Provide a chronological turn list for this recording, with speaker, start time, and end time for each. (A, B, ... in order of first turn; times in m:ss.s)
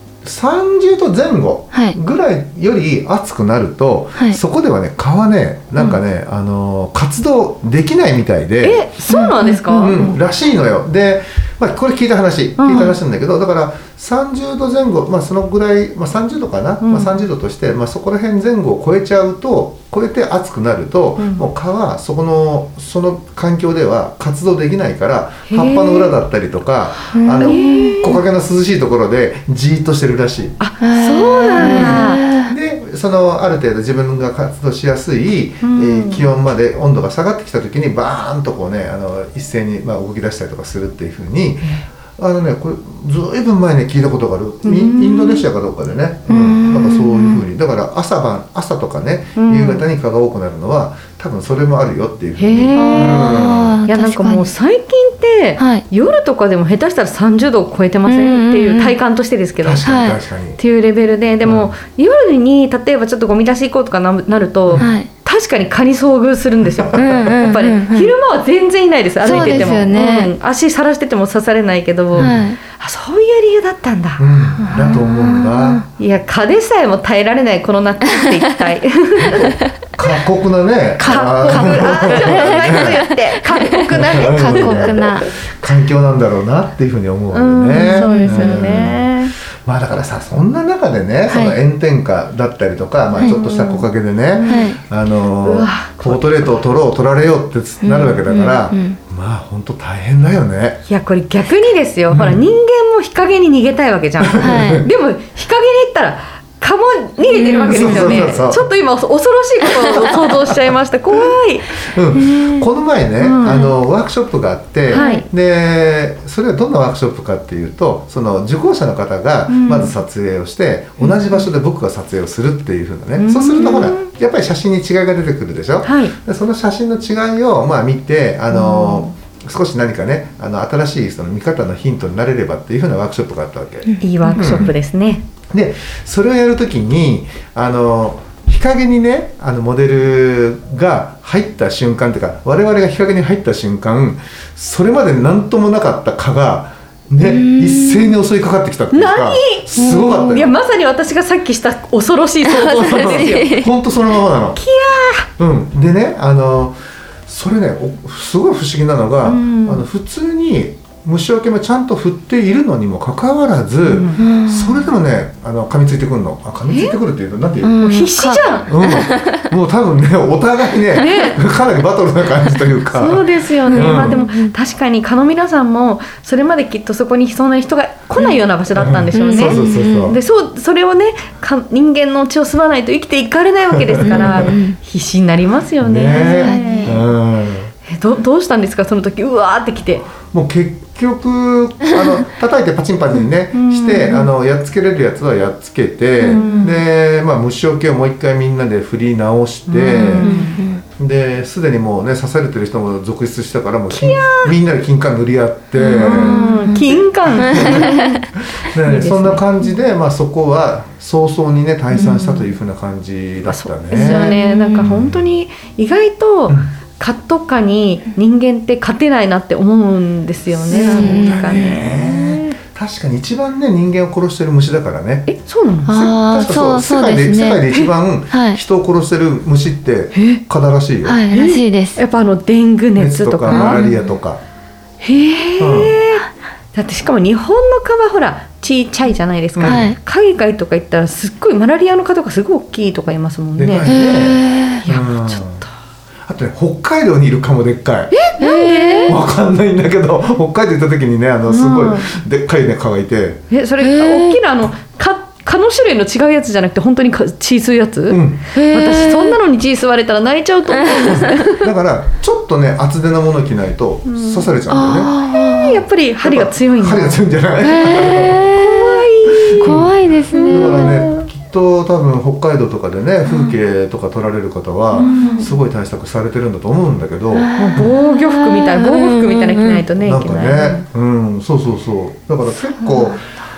0:00.2-0:08.8 A
0:01.7-0:02.0 B
0:08.6-0:10.2 C
0:09.1-0:09.6 B
0:09.7-0:30.6 A
0:12.6-0:12.9 C
0:16.8-0:17.2 C
0:21.2-0:21.4 C
0:25.5-0:26.1 C
0:27.1-0:27.9 B
0:27.4-0:28.2 C
0:30.6-0:32.2 C
0:30.8-0:32.5 B
0:31.6-0:53.8 A
0:35.6-0:36.2 C
0:44.6-0:45.5 C
0:46.3-0:47.4 B
0:49.4-0:49.8 C
0:52.4-0:59.8 C
0:52.7-0:54.5 B
0:55.6-0:55.8 B
0:58.0-0:59.0 B
0:59.6-1:00.6 A
0:59.8-1:00.2 B
1:00.6-1:14.9 C
1:01.4-1:01.7 A
1:04.8-1:05.1 B
1:06.7-1:07.0 A
1:06.9-1:08.1 B
1:09.2-1:10.3 B
1:09.3-1:09.7 A
1:12.1-1:12.4 A
1:12.2-1:12.6 B
1:14.2-1:15.8 A
1:14.6-1:15.8 B
1:16.0-1:19.6 C
1:19.2-1:23.0 A
1:21.0-1:25.3 B
1:21.0-1:25.1 C
1:23.9-1:40.8 A
1:27.3-1:29.3 C
1:27.8-1:28.7 B
1:31.3-1:31.6 B
1:33.2-1:33.8 C
1:33.2-1:33.8 B
1:34.3-1:34.7 C
1:34.4-1:34.8 B
1:35.4-1:36.6 C
1:37.8-1:39.0 B
1:40.8-1:51.8 C
1:42.1-1:42.4 A
1:44.2-1:44.9 A
1:44.4-1:44.9 B
1:47.3-1:48.2 B
1:47.7-1:48.7 A
1:51.1-2:14.7 A
1:52.2-1:52.6 B
1:53.2-1:53.7 C
1:54.9-1:55.2 C
1:54.9-1:55.2 B
1:59.5-2:00.0 C
2:01.0-2:01.4 C
2:03.2-2:04.1 C
2:05.8-2:06.1 C
2:08.5-2:09.1 C
2:13.9-2:14.6 B
2:14.0-2:15.2 C
2:15.5-2:30.6 A
2:27.2-2:28.2 B
2:28.9-2:33.6 C
2:29.8-2:30.4 B
2:32.5-2:33.7 B
2:32.6-2:34.6 A
2:34.6-2:35.3 C
2:35.4-2:47.8 A
2:39.2-2:39.8 C
2:43.8-2:44.2 C
2:44.2-2:44.9 B
2:46.7-2:47.0 C
2:47.6-2:49.5 B
2:47.8-2:48.7 C
2:48.6-2:54.2 A
2:50.9-2:51.4 C
2:52.9-3:07.1 C
2:53.7-2:54.5 B
2:58.7-3:00.2 A
2:59.1-3:00.1 B
3:03.7-3:04.6 A
3:04.1-3:04.8 B
3:05.8-3:07.7 A
3:06.1-3:07.0 B
3:07.9-3:10.1 C
3:10.2-3:20.4 A
3:13.5-3:14.3 C
3:16.2-3:16.8 C
3:16.3-3:16.6 B
3:19.7-3:20.6 C
3:19.9-3:20.8 B
3:20.9-3:35.2 A
3:23.9-3:24.6 C
3:25.8-3:29.5 C
3:25.9-3:28.2 B
3:31.9-3:32.4 C
3:33.4-3:42.6 C
3:34.0-3:35.0 B
3:40.6-3:45.3 A
3:40.7-3:41.6 B
3:45.3-3:45.9 C
3:45.9-3:51.2 A
3:45.9-3:48.6 B
3:50.1-3:50.4 C
3:51.0-3:52.0 B
3:51.3-3:53.9 C
3:53.0-3:54.4 A
3:53.5-3:54.0 B
3:55.0-4:03.9 C
3:55.6-3:56.0 A
3:59.6-3:59.9 A
3:59.6-4:00.0 B
4:03.6-4:05.6 A
4:03.8-4:04.8 B
4:04.8-4:05.7 C
4:06.2-4:08.2 A
4:08.1-4:09.2 C
4:08.4-4:09.2 B
4:09.0-4:13.4 A
4:11.5-4:12.2 C
4:13.5-4:21.7 C
4:13.8-4:14.4 B
4:18.1-4:18.5 A
4:18.5-4:19.4 B
4:20.8-4:21.2 B
4:21.0-4:25.1 A
4:24.1-4:24.5 C
4:24.7-4:25.8 B
4:25.2-4:27.2 C
4:26.2-4:28.5 A
4:27.6-4:29.1 B
4:28.3-4:31.3 C
4:29.3-4:37.9 A
4:29.6-4:31.1 B
4:33.3-4:33.5 B
4:34.9-4:35.5 C
4:35.0-4:35.5 B
4:37.3-4:39.8 B
4:37.6-4:40.8 C
4:40.0-4:43.2 A
4:42.6-4:43.2 B